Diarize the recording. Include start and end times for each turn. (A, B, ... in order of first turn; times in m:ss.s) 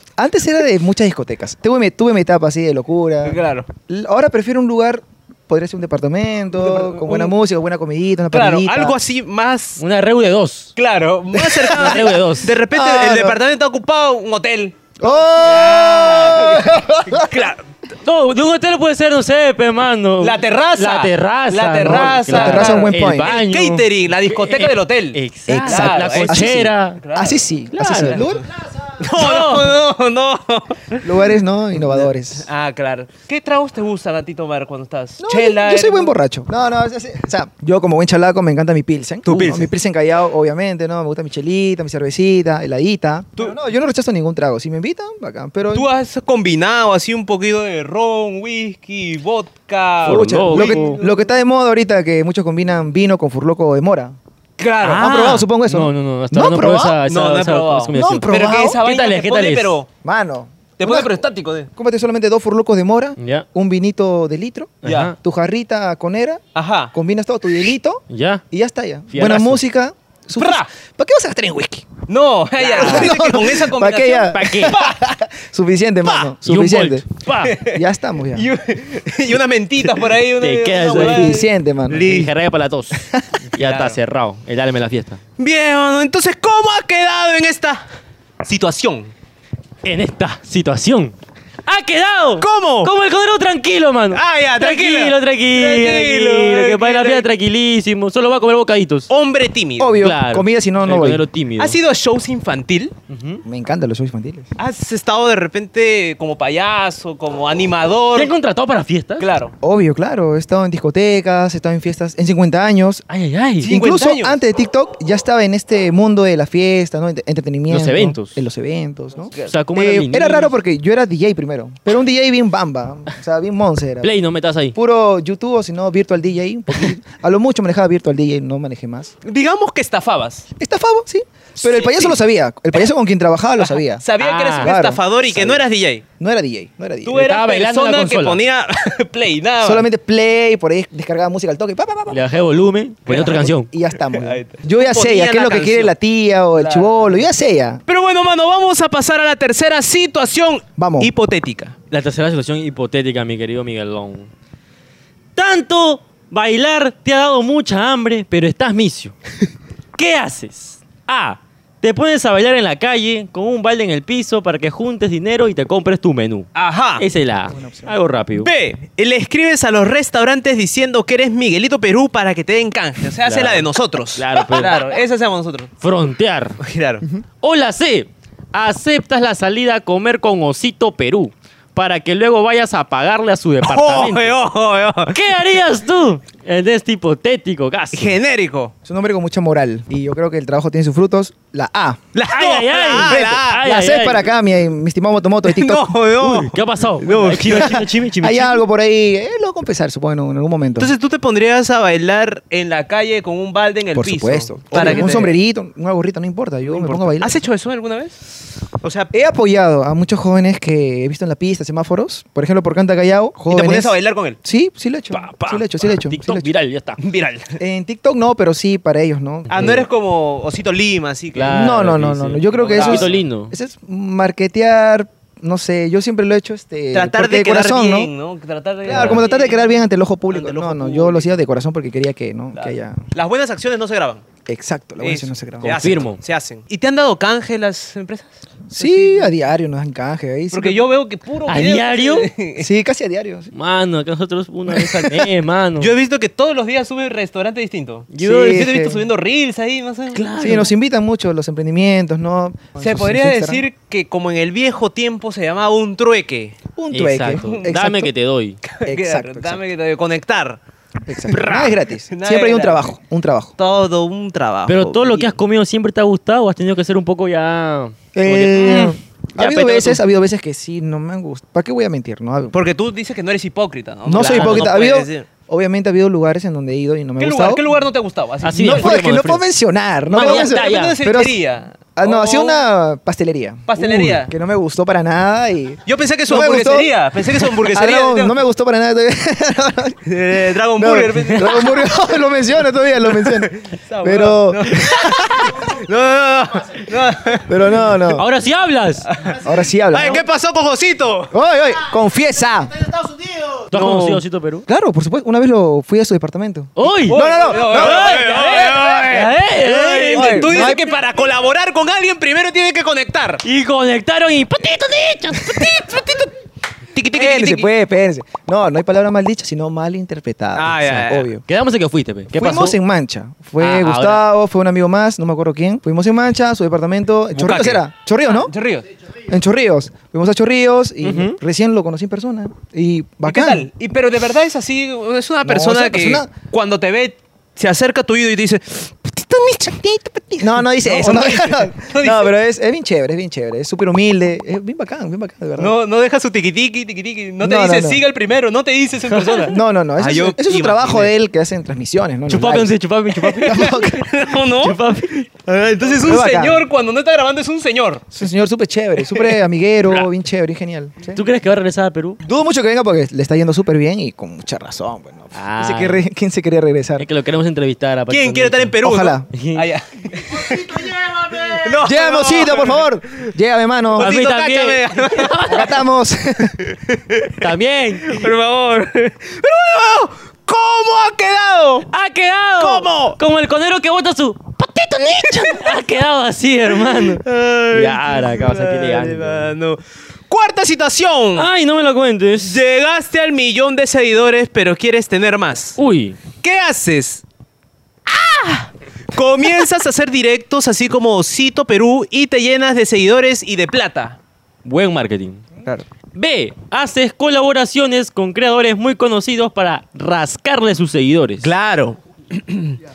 0:00.2-0:09.0 A
0:03.2-0:03.7 B
0:06.6-0:07.3 B
0:08.3-0:09.8 B
0:09.8-0:10.7 C
0:10.8-0:17.6 B
0:11.4-0:12.1 A
0:11.8-0:12.5 C
0:12.7-0:13.4 A
0:15.0-0:17.4 A
0:18.0-0:27.0 C
0:20.2-0:27.4 B
0:21.8-0:23.3 A
0:25.5-0:28.5 A
0:27.7-0:28.3 C
0:29.0-0:31.0 B
0:29.2-0:29.7 C
0:31.0-0:32.4 A
0:32.4-0:36.2 B
0:35.2-0:45.9 A
0:39.2-0:39.6 B
0:39.3-0:39.7 C
0:45.7-0:51.3 B
0:50.0-0:51.0 C
0:50.1-0:54.2 A
0:54.6-0:55.2 B
0:54.8-0:59.8 C
0:54.9-0:57.0 A
0:57.0-0:59.9 B
0:57.9-0:58.8 A
1:00.0-1:01.2 A
1:00.8-1:01.7 B
1:01.7-1:11.9 A
1:03.2-1:03.4 C
1:04.8-1:05.1 C
1:04.9-1:05.1 B
1:06.5-1:06.9 B
1:08.1-1:08.4 C
1:09.1-1:09.6 C
1:10.4-1:10.7 B
1:12.1-1:15.0 B
1:12.6-1:17.0 A
1:12.8-1:13.1 C
1:14.3-1:14.8 C
1:16.4-1:17.5 C
1:17.4-1:17.8 B
1:17.6-1:18.5 A
1:18.3-1:22.3 B
1:20.4-1:23.0 C
1:20.9-1:22.2 A
1:23.5-1:25.2 C
1:23.6-1:24.0 B
1:25.4-1:27.8 B
1:28.4-1:29.1 B
1:29.8-1:31.1 C
1:31.6-1:39.1 C
1:32.4-1:32.9 B
1:34.1-1:37.2 B
1:39.1-1:40.0 B
1:39.8-1:41.2 A
1:40.0-1:41.8 C
1:41.6-1:42.9 B
1:43.1-1:43.4 C
1:43.4-1:44.5 A
1:44.6-1:48.3 B
1:48.1-1:49.3 C
1:49.2-1:49.5 B
1:49.6-1:53.0 A
1:53.1-1:53.7 C
1:53.6-1:54.4 B
1:53.6-2:04.1 A
1:57.7-1:58.4 C
1:59.4-2:00.5 C
2:04.0-2:04.8 C
2:04.7-2:09.1 A
2:09.2-2:10.5 B
2:10.6-2:15.7 A
2:11.6-2:12.2 B
2:13.6-2:16.0 B
2:14.2-2:14.7 C
2:16.2-2:17.2 A
2:17.0-2:19.9 B
2:17.1-2:18.4 C
2:19.6-2:22.2 A
2:22.1-2:23.7 C
2:23.1-2:27.8 A
2:24.1-2:25.9 B
2:26.6-2:27.2 B
2:27.9-2:31.7 B
2:30.8-2:31.1 A
2:31.9-2:34.3 C
2:35.4-2:39.2 C
2:40.0-2:48.5 C
2:46.5-2:47.0 B
2:47.5-2:48.0 A
2:48.4-2:55.7 B
2:53.2-2:54.8 C
2:55.8-2:56.6 C
2:56.6-2:57.0 B
2:57.4-3:04.4 C
3:03.6-3:05.2 B
3:05.1-3:08.1 C
3:07.9-3:08.7 B
3:08.8-3:12.1 A
3:12.1-3:13.6 B
3:12.3-3:14.3 C
3:12.9-3:15.9 A
3:15.4-3:17.8 B
3:16.2-3:18.6 C
3:17.6-3:20.9 A
3:20.8-3:25.4 B
3:23.9-3:27.4 A
3:26.7-3:28.2 B
3:28.8-3:29.1 B
3:29.1-3:36.5 A
3:33.5-3:34.4 B
3:35.1-3:37.0 C
3:37.0-3:37.6 B
3:37.6-3:39.8 A
3:39.5-3:39.8 C
3:39.5-3:41.8 B
3:41.4-3:43.5 C
3:41.5-3:48.1 A
3:42.5-3:43.2 B
3:46.9-3:49.7 B
3:48.9-3:53.0 A
3:48.9-3:49.2 C
3:50.3-3:51.4 B
3:52.5-3:54.2 B
3:54.4-3:55.8 A
3:55.0-3:59.3 B
3:55.6-3:56.2 C
3:58.7-4:00.9 A
4:00.5-4:02.7 B
4:01.5-4:02.3 C
4:02.6-4:03.5 A
4:03.5-4:05.9 C
4:05.8-4:10.3 B
4:08.1-4:08.6 C
4:08.2-4:09.0 A
4:10.1-4:10.7 C
4:10.4-4:13.6 A
4:12.8-4:16.6 B
4:16.8-4:18.1 A
4:16.9-4:18.6 C
4:18.6-4:20.6 B
4:18.8-4:19.6 A
4:21.0-4:23.5 A
4:21.3-4:21.8 C
4:22.1-4:22.9 B
4:23.6-4:25.3 B
4:24.7-4:29.8 C
4:28.1-4:32.5 A
4:29.4-4:30.0 B
4:32.5-4:35.3 B
4:34.1-4:37.6 A
4:34.1-4:34.8 C
4:37.2-4:39.0 B
4:38.4-4:39.5 C
4:38.6-4:50.0 A
4:40.1-4:41.0 C
4:40.2-4:42.7 B
4:43.7-4:44.3 B
4:45.9-4:48.4 B
4:50.0-4:51.9 B
4:50.8-4:53.5 A
4:53.1-4:57.9 B
4:54.0-4:55.6 A
4:57.5-4:58.3 A
4:58.1-4:59.1 C
4:59.1-5:01.3 B
4:59.3-5:00.2 A
5:01.3-5:02.9 A
5:03.7-5:04.2 B
5:03.7-5:04.7 C
5:04.7-5:08.4 A
5:06.8-5:10.8 C
5:07.1-5:13.4 B
5:10.1-5:10.9 A
5:13.4-5:16.2 C
5:16.9-5:17.7 B
5:17.1-5:21.4 A
5:20.6-5:21.3 B
5:21.5-5:22.8 C
5:22.3-5:28.5 A
5:23.6-5:24.2 C
5:27.4-5:28.9 B
5:29.3-5:33.7 A
5:31.0-5:31.4 C
5:33.2-5:42.3 B
5:35.4-5:36.3 A
5:40.4-5:45.7 A
5:45.6-5:51.1 B
5:47.4-5:48.1 A
5:49.1-5:49.4 C
5:49.4-5:52.7 A
5:52.3-5:55.3 C
5:53.2-5:54.8 B
5:53.4-5:54.0 A
5:55.4-5:58.1 B
5:55.9-5:56.6 A
5:58.1-6:01.2 A
6:01.1-6:02.2 C
6:02.2-6:07.1 A
6:05.3-6:06.0 C
6:07.0-6:08.8 C
6:08.1-6:13.2 B
6:08.8-6:09.3 A
6:09.3-6:09.7 C
6:10.8-6:14.1 A
6:13.9-6:15.7 B
6:14.0-6:15.7 C
6:15.5-6:16.5 A
6:16.6-6:17.4 B
6:17.4-6:18.2 C
6:18.0-6:21.9 B
6:21.9-6:29.5 C
6:22.6-6:23.2 B
6:26.7-6:31.5 B
6:31.4-6:32.6 C
6:32.4-6:35.8 B
6:35.8-6:36.2 C
6:36.4-6:37.2 B
6:38.1-6:44.2 B
6:44.6-6:45.4 C
6:46.1-6:51.5 C
6:51.4-6:52.8 B